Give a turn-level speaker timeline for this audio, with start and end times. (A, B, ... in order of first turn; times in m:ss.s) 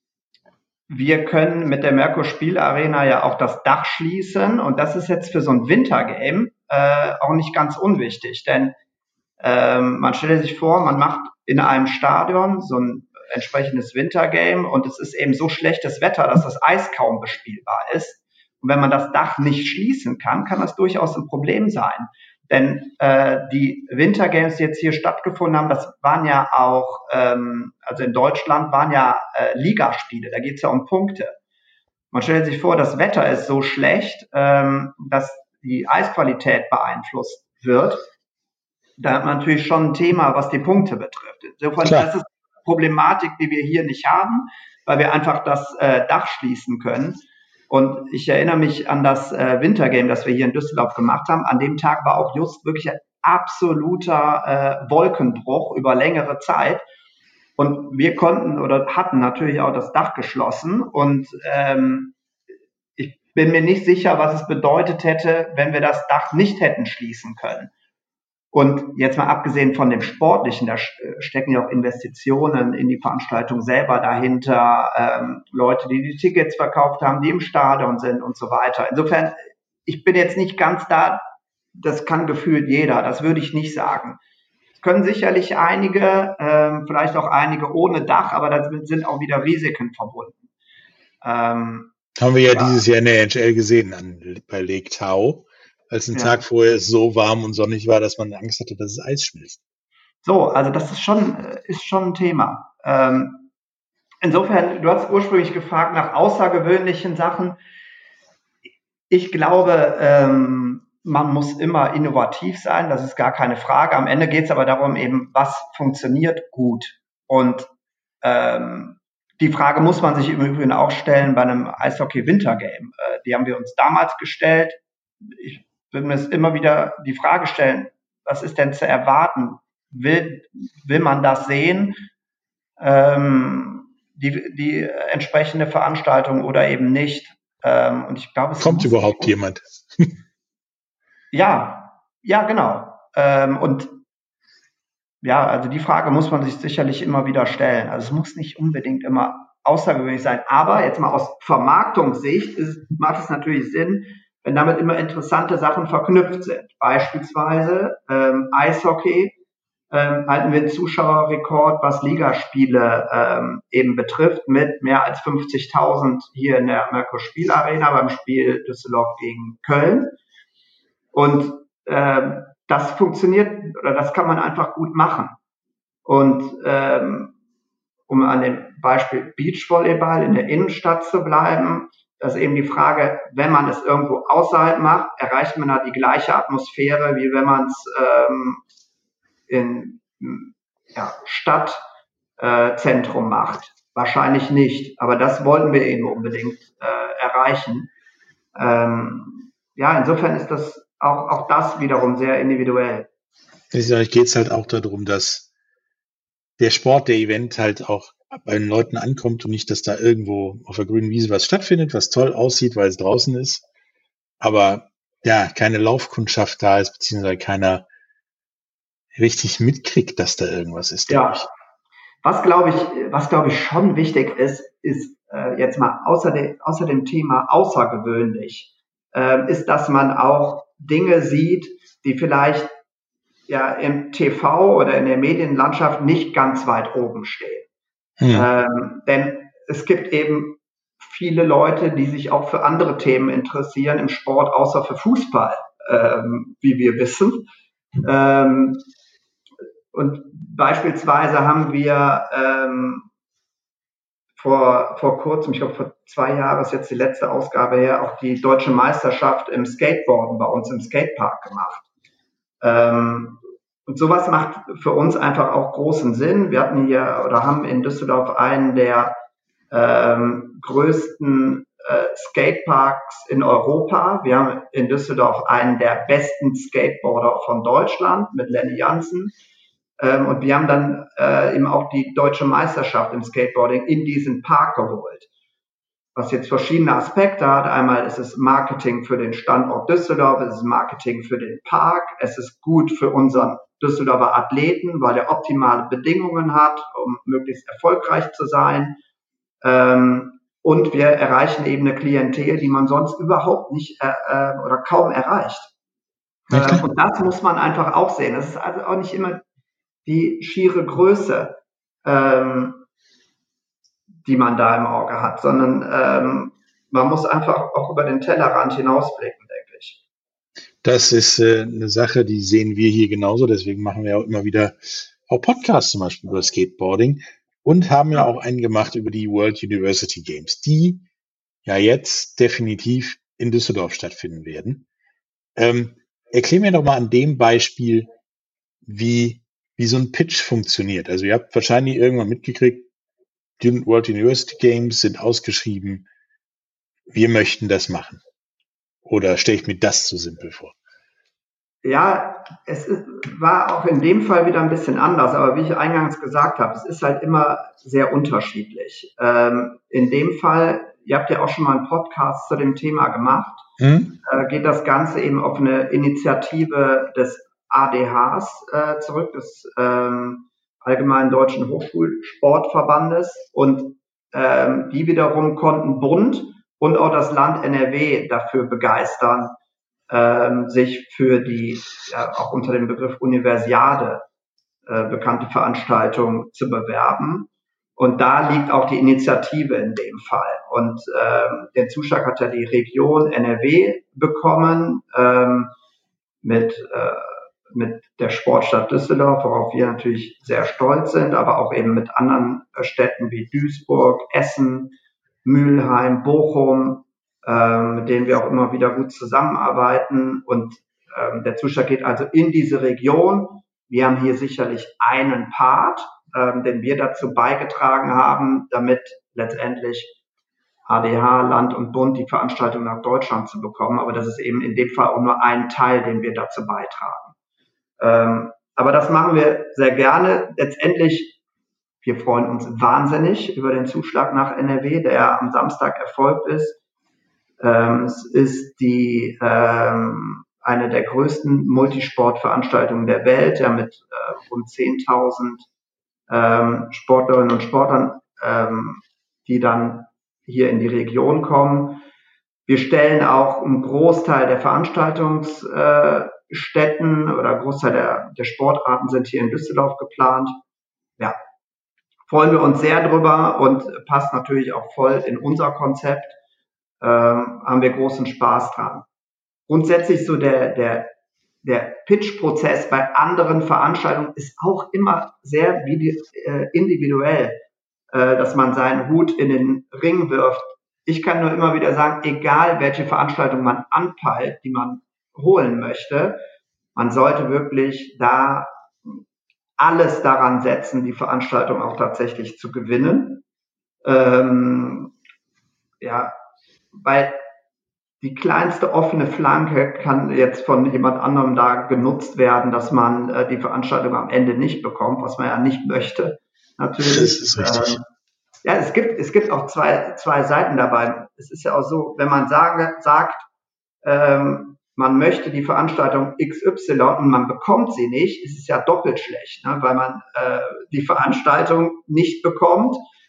0:00.9-0:08.8 A
0:09.4-0:31.3 A
0:32.1-0:38.0 A
0:39.0-0:56.8 A
0:41.8-0:42.1 B
0:57.6-1:02.2 A
1:03.0-1:07.7 A
1:08.5-1:21.2 A
1:21.8-1:24.2 A
1:24.8-1:30.4 A
1:31.2-1:31.9 A
1:32.2-1:39.6 B
1:32.5-1:32.8 A
1:36.1-1:36.4 A
1:40.2-1:43.5 A
1:44.2-1:47.6 A
1:49.1-1:57.7 A
1:58.2-2:04.8 A
2:05.3-2:12.1 A
2:12.8-2:19.3 A
2:18.6-2:20.1 B
2:21.3-2:24.0 A
2:25.2-2:39.4 A
2:39.9-2:50.2 A
2:51.1-2:55.4 A
2:56.0-2:57.3 A
2:58.1-3:08.6 A
3:09.5-3:11.8 A
3:12.4-3:17.9 A
3:18.6-3:23.1 A
3:23.7-3:25.5 B
3:26.6-3:33.6 B
3:34.4-3:37.9 B
3:39.2-3:41.5 B
3:41.1-3:41.4 A
3:42.2-3:52.8 A
3:53.5-3:57.7 A
3:58.2-3:58.5 B
3:58.3-4:07.5 A
4:08.0-4:08.9 A
4:09.9-4:13.1 A
4:14.4-4:21.9 A
4:22.6-4:29.2 A
4:29.7-4:39.3 A
4:40.0-4:45.3 A
4:46.2-4:59.0 A
4:59.6-5:05.7 A
5:06.5-5:09.4 A
5:06.5-5:06.8 B
5:10.1-5:12.8 A
5:14.2-5:20.0 A
5:20.8-5:31.0 B
5:31.6-5:34.9 B
5:35.6-5:38.1 B
5:38.9-5:42.9 B
5:43.6-5:46.1 B
5:47.1-5:48.2 B
5:49.0-5:50.8 B
5:51.8-6:03.6 A
6:03.8-6:04.2 B
6:04.2-6:19.6 A
6:20.1-6:24.2 A
6:24.9-6:35.7 A
6:36.4-7:00.2 A
7:00.9-7:07.3 A
7:08.0-7:11.4 A
7:12.0-7:16.8 A
7:17.6-7:25.7 A
7:26.3-7:32.0 A
7:32.7-7:40.6 A
7:42.3-7:46.4 A
7:47.0-7:49.1 A
7:49.7-7:51.1 A
7:51.6-7:57.6 A
7:58.1-8:06.4 A
8:07.0-8:09.2 A
8:09.8-8:13.4 A
8:14.0-8:15.1 A
8:16.0-8:16.3 A
8:17.0-8:17.4 A
8:18.2-8:28.0 A
8:27.0-8:28.0 B
8:28.6-8:33.4 A
8:34.0-8:43.0 A